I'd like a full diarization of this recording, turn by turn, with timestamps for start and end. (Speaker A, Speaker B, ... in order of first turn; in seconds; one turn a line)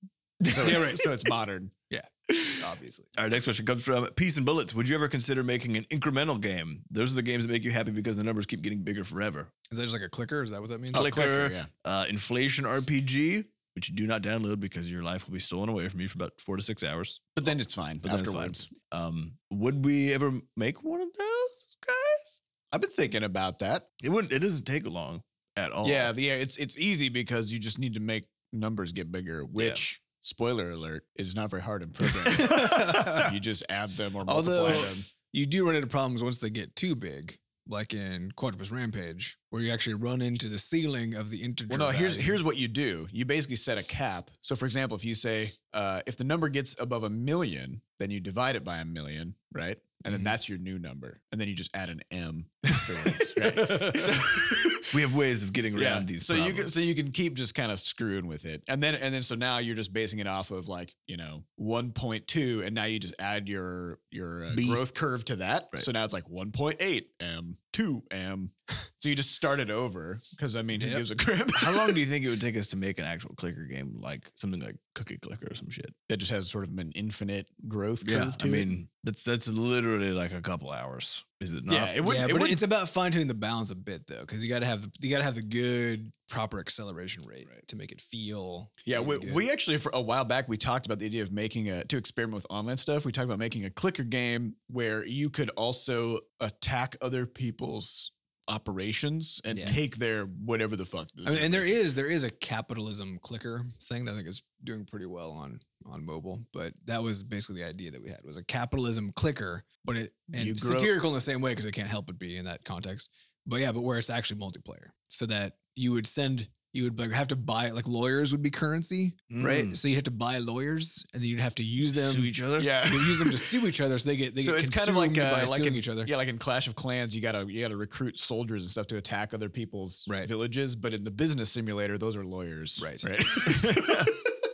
Speaker A: 0.4-1.8
Speaker B: 0.5-1.2
Speaker B: 1.9-3.1
Speaker C: 3.2-9.5
Speaker B: 9.7-11.1
Speaker A: 10.9-11.7
Speaker C: 10.9-17.4
Speaker A: 17.4-18.7
Speaker C: 18.0-22.4
Speaker A: 22.7-23.9
Speaker C: 24.0-26.1
Speaker A: 25.8-35.1
Speaker C: 29.6-29.8
Speaker B: 32.3-33.3
Speaker C: 32.4-33.2
Speaker B: 34.2-42.4
Speaker A: 41.7-54.9
Speaker B: 53.4-54.0
Speaker C: 54.8-56.7
Speaker A: 55.8-72.0
Speaker C: 64.5-64.8
Speaker B: 70.8-71.0
Speaker C: 71.5-75.9
Speaker A: 76.1-78.8
Speaker C: 78.0-82.0
Speaker A: 81.7-82.6
Speaker B: 82.0-89.5
Speaker A: 88.9-101.9
Speaker B: 99.5-99.8
Speaker B: 101.2-126.1
Speaker A: 110.3-111.0
Speaker C: 119.3-119.8
Speaker C: 121.9-122.9
Speaker A: 122.6-123.7
Speaker A: 124.4-134.3
Speaker B: 132.8-134.1